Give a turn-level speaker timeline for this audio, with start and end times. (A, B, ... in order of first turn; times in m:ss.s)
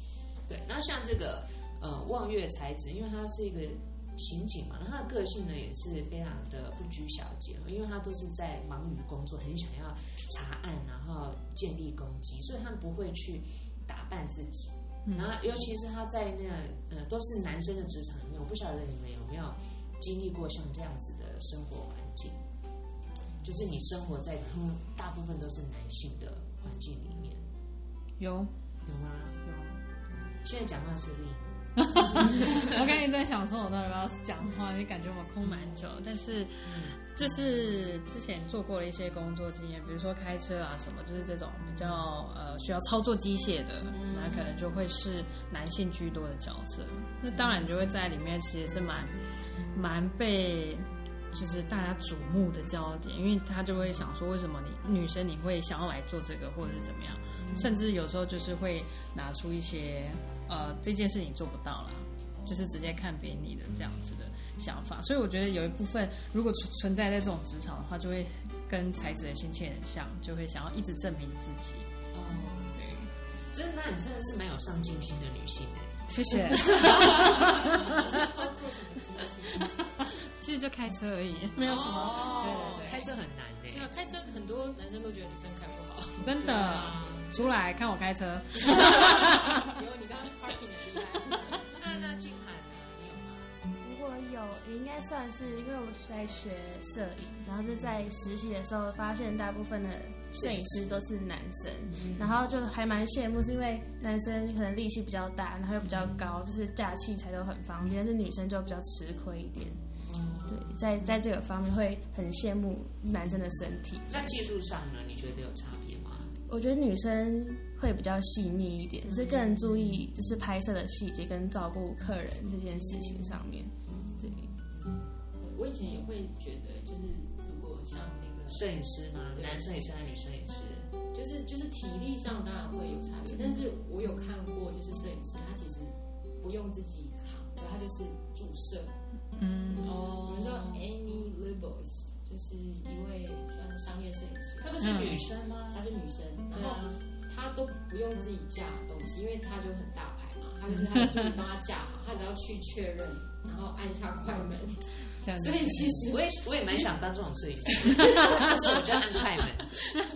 0:00.5-0:22.4 A
0:15.1-0:15.3 B
0:23.4-0:27.4 A
0:28.2-0:28.5 B
0:28.8-0:29.4 A
0:29.4-0:29.8 B
0:30.4-0:31.6 A
0:31.8-1:11.9 B
0:32.1-0:32.7 A
0:36.6-0:37.0 A
0:47.3-0:47.6 A
0:57.4-0:57.8 A
1:02.3-1:02.7 A
1:12.1-1:12.8 A
1:12.7-1:13.1 B
1:13.5-1:18.0 A
1:16.1-1:17.5 B
1:17.6-1:19.8 C
1:20.0-1:23.1 B
1:21.6-1:22.9 C
1:21.6-1:23.9 A
1:23.7-1:27.6 C
1:26.2-1:29.6 B
1:26.5-1:27.3 A
1:28.7-1:31.7 C
1:31.8-1:33.5 A
1:33.8-1:49.8 D
1:40.3-1:41.1 A
1:41.9-1:42.4 A
1:50.1-1:50.8 A
1:50.5-1:54.4 D
1:54.1-1:56.3 A
1:56.5-2:04.5 D
1:59.2-1:59.6 A
2:03.9-2:04.2 C
2:04.7-2:05.1 A
2:05.4-2:08.7 C
2:08.5-2:10.9 A
2:09.3-2:09.7 C
2:11.1-2:18.9 C
2:19.4-2:20.4 B
2:19.7-2:25.0 C
2:19.9-2:20.8 A
2:24.6-2:25.8 A
2:24.8-2:25.2 B
2:25.7-2:36.9 C
2:26.5-2:27.0 A
2:35.2-2:35.9 B
2:36.0-2:39.8 A
2:38.1-2:38.4 B